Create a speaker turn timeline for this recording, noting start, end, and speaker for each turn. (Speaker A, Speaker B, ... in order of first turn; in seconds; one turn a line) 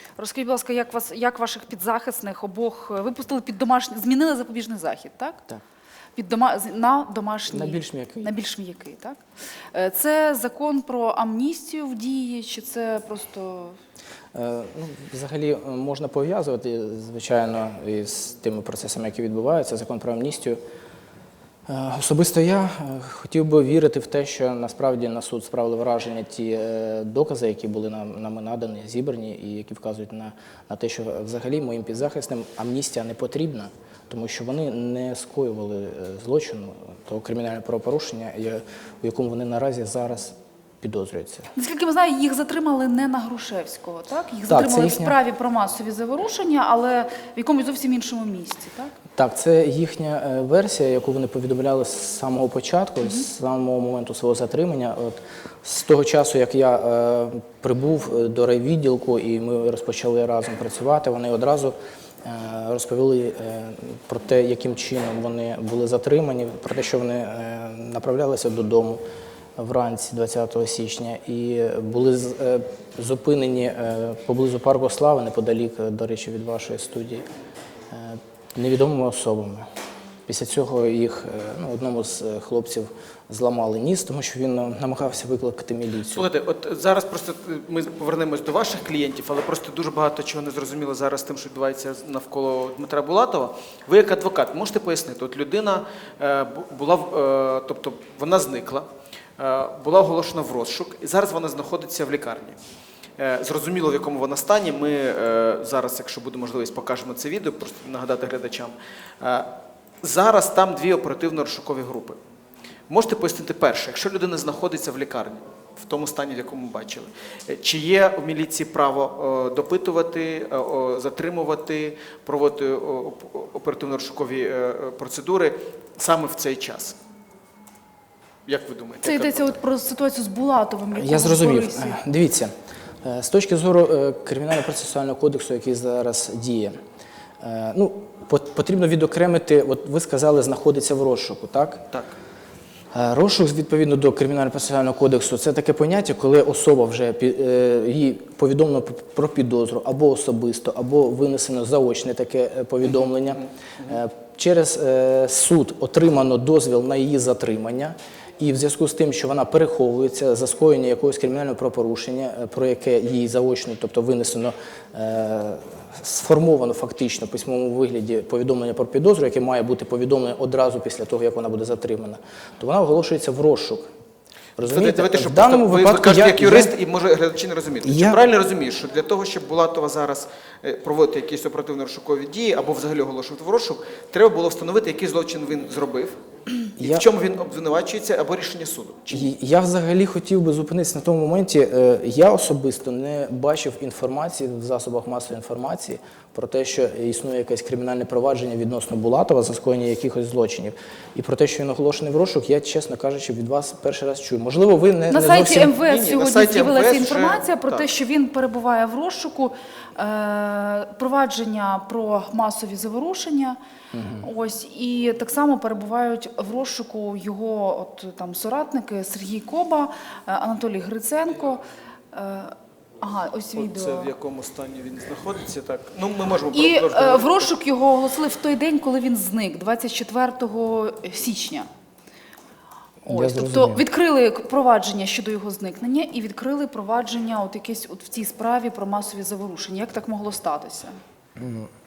Speaker A: 0.2-5.4
Speaker A: 6.2-9.2
Speaker B: 7.5-8.4
Speaker A: 9.7-13.8
Speaker B: 14.3-20.6
Speaker B: 21.7-41.5
Speaker A: 41.5-49.0
Speaker B: 44.5-45.2
Speaker B: 49.1-69.0
Speaker B: 69.6-77.2
Speaker B: 77.9-79.7
Speaker B: 80.3-86.3
Speaker C: 86.1-98.9
Speaker C: 99.4-102.6
Speaker C: 103.2-112.2
Speaker C: 112.9-127.0
Speaker C: 128.5-129.6
Speaker A: 129.0-132.0
Speaker B: 130.9-132.5
Speaker B: 133.0-136.8
Speaker B: 137.4-141.9
Speaker B: 142.9-173.9
Speaker B: 174.6-176.7
Speaker C: 174.6-189.3
Speaker B: 177.8-178.2
Speaker B: 186.8-187.1
Speaker B: 189.1-205.8
Speaker A: 205.1-213.6
Speaker C: 205.8-207.9
Speaker B: 213.9-214.3
Speaker A: 214.2-224.1
Speaker C: 223.6-227.5
Speaker A: 226.5-231.7
Speaker B: 233.0-233.8
Speaker A: 233.1-241.0
Speaker B: 241.4-241.7